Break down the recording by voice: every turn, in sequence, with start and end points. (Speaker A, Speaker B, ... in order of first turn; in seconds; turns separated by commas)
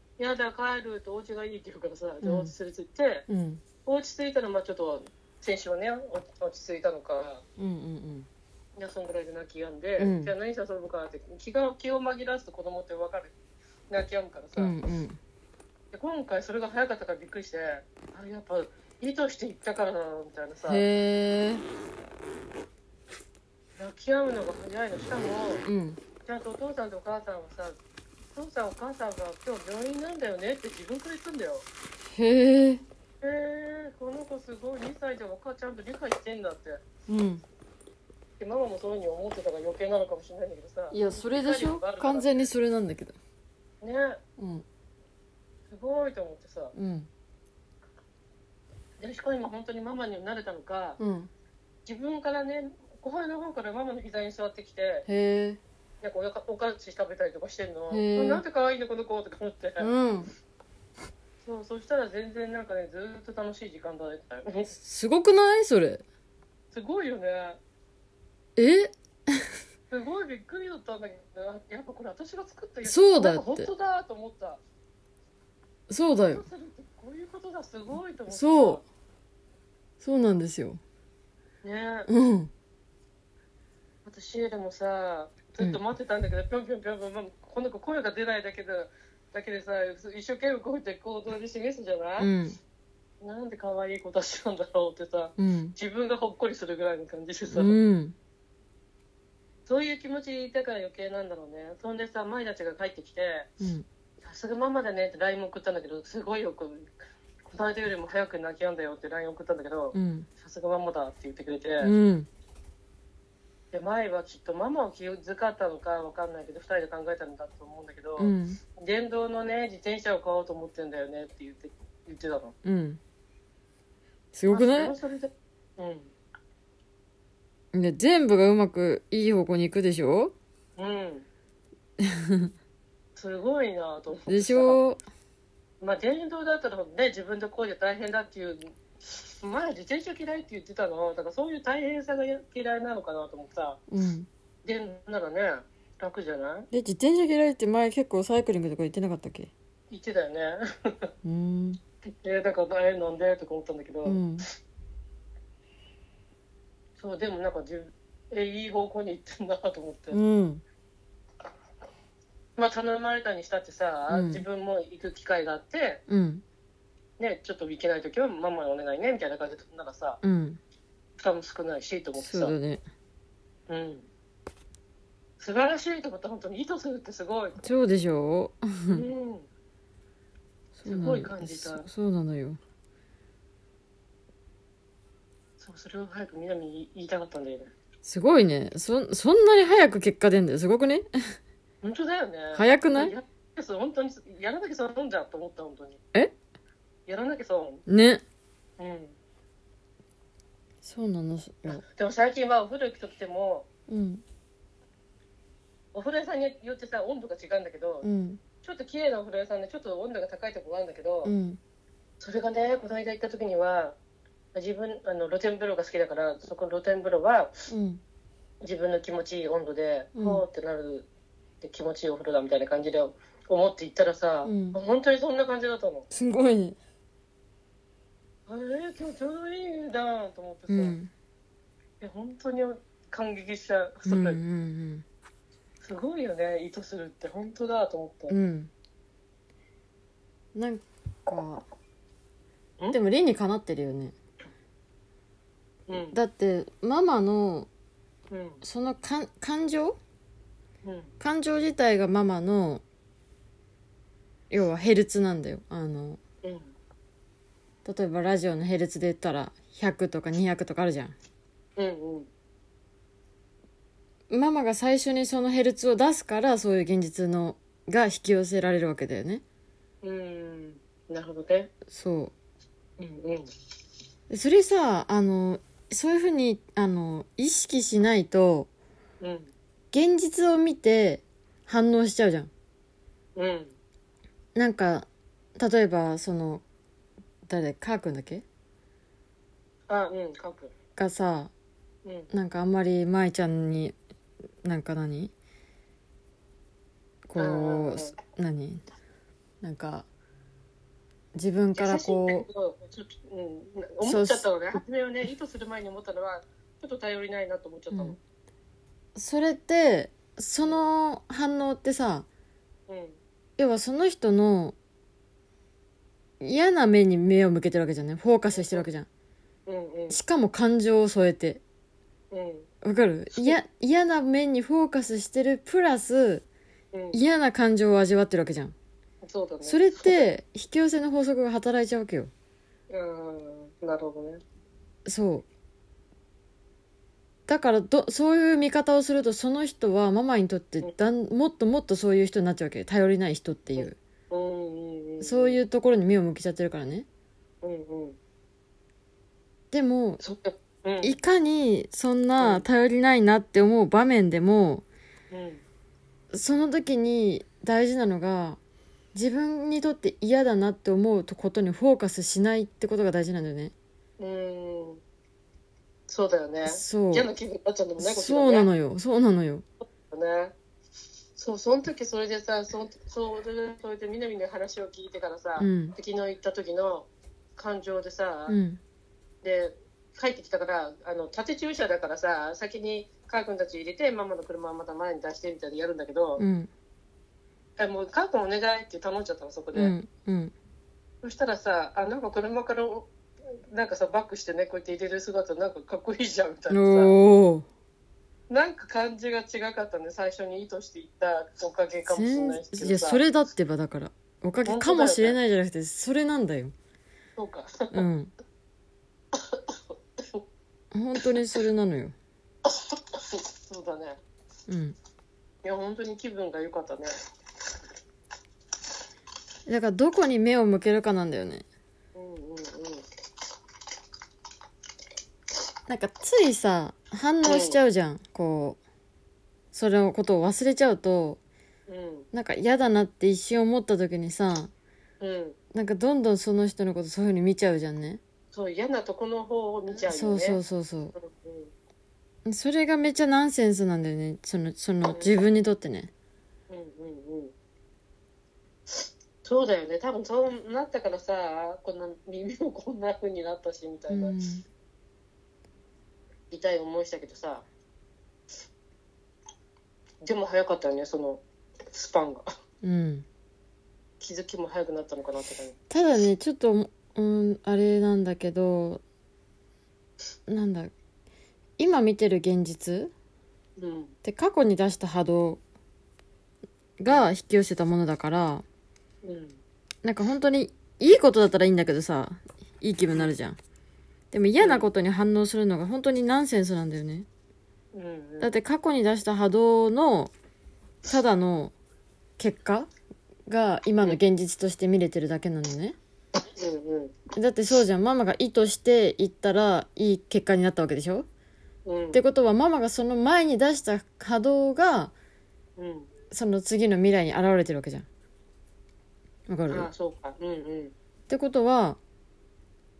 Speaker A: 0.2-3.3, Speaker B: 2.2-2.5, Speaker B: 3.3-3.6, Speaker A: 3.8-7.4, Speaker B: 7.6-8.3, Speaker A: 8.8-13.3, Speaker B: 10.0-10.3, Speaker A: 13.9-14.8, Speaker B: 14.6-15.2, Speaker A: 15.9-20.8, Speaker B: 20.7-21.6, Speaker A: 23.8-25.6, Speaker B: 25.6-26.0, Speaker A: 26.2-27.8, Speaker A: 28.3-31.7, Speaker B: 32.1-32.8, Speaker A: 33.2-36.8, Speaker B: 37.1-37.4, Speaker A: 38.4-42.4, Speaker B: 40.9-43.1, Speaker A: 43.8-44.2, Speaker B: 44.4-44.6, Speaker A: 45.7-46.7, Speaker B: 46.7-47.1, Speaker A: 49.0-51.0, Speaker B: 51.0-51.3, Speaker A: 51.9-55.1, Speaker B: 55.1-55.6, Speaker A: 56.0-59.9, Speaker B: 57.9-58.4, Speaker B: 59.8-60.3, Speaker A: 61.4-64.7, Speaker B: 64.7-66.0, Speaker A: 66.7-67.6, Speaker B: 68.5-69.5, Speaker A: 69.9-74.6, Speaker B: 72.8-73.7, Speaker B: 75.9-76.4, Speaker A: 76.3-78.8, Speaker B: 78.3-78.8, Speaker B: 80.0-80.8, Speaker A: 81.6-82.1, Speaker B: 82.1-82.5, Speaker A: 84.0-92.3, Speaker B: 92.2-92.6, Speaker A: 93.2-97.8, Speaker B: 95.4-95.7, Speaker B: 97.5-98.2, Speaker A: 99.7-103.5, Speaker B: 103.6-103.8, Speaker A: 104.2-106.9, Speaker A: 107.4-111.9, Speaker B: 109.9-110.3, Speaker B: 111.8-112.3, Speaker A: 113.7-122.5, Speaker B: 118.2-118.6, Speaker B: 122.6-123.0, Speaker B: 124.3-124.9, Speaker A: 124.5-126.1, Speaker B: 127.7-130.3, Speaker A: 130.8-131.3, Speaker B: 132.0-132.5, Speaker A: 133.2-134.8, Speaker B: 134.3-135.0, Speaker A: 135.8-143.8, Speaker B: 143.9-144.3, Speaker A: 144.6-146.7, Speaker B: 146.7-149.5, Speaker A: 149.9-151.1, Speaker B: 151.2-151.8, Speaker A: 152.1-154.2, Speaker B: 154.0-154.4, Speaker A: 157.0-160.2, Speaker B: 160.1-160.6, Speaker A: 162.6-166.0, Speaker B: 164.1-164.4, Speaker B: 166.1-166.4, Speaker A: 167.2-170.2, Speaker B: 170.2-170.6, Speaker A: 171.2-172.6, Speaker B: 172.2-172.8, Speaker A: 173.7-174.1, Speaker A: 175.4-177.6, Speaker B: 177.6-179.0, Speaker A: 178.9-179.5, Speaker B: 180.8-182.6, Speaker A: 180.8-181.9, Speaker A: 185.6-187.7, Speaker B: 188.0-191.3, Speaker A: 191.8-196.0, Speaker B: 192.5-193.1, Speaker A: 197.1-197.8, Speaker B: 197.9-198.2, Speaker A: 198.8-199.2, Speaker B: 200.8-201.8, Speaker A: 201.7-203.7, Speaker B: 203.9-204.2, Speaker A: 205.9-208.1, Speaker B: 208.0-208.4, Speaker A: 208.6-211.3, Speaker B: 211.2-211.6, Speaker A: 212.2-214.0, Speaker A: 214.5-217.5, Speaker B: 217.7-218.0, Speaker A: 218.6-221.1, Speaker B: 220.1-220.4, Speaker A: 221.6-226.1, Speaker B: 224.4-224.8, Speaker B: 226.1-226.8, Speaker A: 228.5-231.0, Speaker B: 230.7-231.1, Speaker A: 232.0-234.4, Speaker B: 234.1-235.0, Speaker A: 235.8-238.4, Speaker B: 238.3-238.7, Speaker B: 240.5-241.6, Speaker B: 242.9-244.1, Speaker A: 245.9-246.2, Speaker B: 246.1-247.7, Speaker A: 248.3-248.6, Speaker B: 248.6-250.0, Speaker A: 250.8-251.1, Speaker B: 251.2-252.8, Speaker B: 254.5-256.2, Speaker A: 256.4-256.7, Speaker B: 257.8-261.1, Speaker A: 261.8-262.3, Speaker B: 264.3-269.4, Speaker A: 270.0-271.7, Speaker B: 271.9-272.3, Speaker A: 273.0-273.5, Speaker B: 274.3-278.7, Speaker A: 279.2-279.5, Speaker B: 279.9-282.5, Speaker A: 283.4-283.8, Speaker B: 284.5-285.1, Speaker B: 285.6-286.6, Speaker B: 287.4-288.4, Speaker A: 289.9-290.7, Speaker B: 290.9-291.5, Speaker A: 292.0-292.3, Speaker B: 292.3-293.9, Speaker B: 294.6-295.3, Speaker B: 297.3-298.8, Speaker A: 297.4-298.1, Speaker B: 299.6-300.1, Speaker B: 301.3-302.5, Speaker A: 301.7-308.2, Speaker B: 304.0-304.4, Speaker B: 307.9-308.2, Speaker B: 309.1-312.2, Speaker A: 310.6-310.9, Speaker A: 312.9-313.2, Speaker B: 313.6-314.8, Speaker B: 316.4-319.1, Speaker A: 318.5-318.9, Speaker A: 319.6-320.2, Speaker B: 320.1-321.6, Speaker A: 322.3-322.7, Speaker B: 322.8-326.4, Speaker A: 323.3-323.6, Speaker A: 326.9-327.2, Speaker B: 327.1-328.7, Speaker A: 329.2-330.3, Speaker B: 329.6-332.3, Speaker A: 332.9-334.4, Speaker B: 335.1-335.4, Speaker B: 337.5-344.0, Speaker A: 343.8-345.6, Speaker B: 345.2-347.1, Speaker A: 347.6-348.2, Speaker B: 349.7-350.2, Speaker A: 350.2-351.2, Speaker B: 351.0-354.8, Speaker A: 352.4-352.7, Speaker A: 355.3-355.6, Speaker B: 356.3-358.6, Speaker B: 359.1-363.7, Speaker A: 364.2-365.0, Speaker A: 366.1-368.7, Speaker B: 366.6-367.3, Speaker B: 368.0-369.6, Speaker A: 370.1-370.5, Speaker A: 371.4-378.6, Speaker B: 375.6-375.9, Speaker B: 378.5-378.8, Speaker A: 379.4-386.4, Speaker B: 386.4-386.7, Speaker A: 387.8-389.9, Speaker B: 389.7-390.5, Speaker A: 391.2-393.1, Speaker A: 393.7-397.1, Speaker B: 396.7-397.7, Speaker A: 398.5-403.2, Speaker B: 402.1-406.7, Speaker A: 404.6-405.4, Speaker A: 407.4-408.0, Speaker B: 407.9-408.3, Speaker A: 409.3-410.4, Speaker B: 410.9-412.1, Speaker A: 412.6-414.2, Speaker B: 414.7-414.9, Speaker A: 415.6-417.1, Speaker B: 419.7-421.6, Speaker A: 422.1-423.1, Speaker B: 425.9-428.8, Speaker A: 427.4-427.8, Speaker B: 429.7-431.4, Speaker A: 431.9-432.3, Speaker B: 432.3-434.7, Speaker A: 435.2-435.6, Speaker B: 435.7-438.2, Speaker A: 438.5-440.6, Speaker B: 439.9-441.1, Speaker A: 441.1-441.7, Speaker B: 442.4-446.1, Speaker A: 445.0-445.4, Speaker A: 446.7-447.5, Speaker A: 449.4-454.4, Speaker B: 454.1-454.6, Speaker A: 456.5-457.6, Speaker A: 460.2-462.5, Speaker B: 462.8-463.2, Speaker A: 464.2-465.8, Speaker B: 465.9-469.0, Speaker B: 470.5-470.9, Speaker B: 471.8-473.1, Speaker A: 473.8-474.1, Speaker B: 474.2-475.6, Speaker B: 477.0-478.6, Speaker A: 479.2-479.6, Speaker B: 480.0-483.6, Speaker B: 484.3-487.3, Speaker A: 484.6-484.9, Speaker A: 487.9-488.5, Speaker B: 488.4-490.3, Speaker B: 491.0-491.7, Speaker B: 492.4-492.9, Speaker B: 493.5-495.9, Speaker A: 496.6-497.2, Speaker B: 497.3-501.2, Speaker A: 501.9-502.2, Speaker B: 502.1-505.1, Speaker A: 505.8-506.1, Speaker B: 506.3-508.1, Speaker B: 509.5-509.9, Speaker A: 509.7-510.9, Speaker B: 511.3-512.0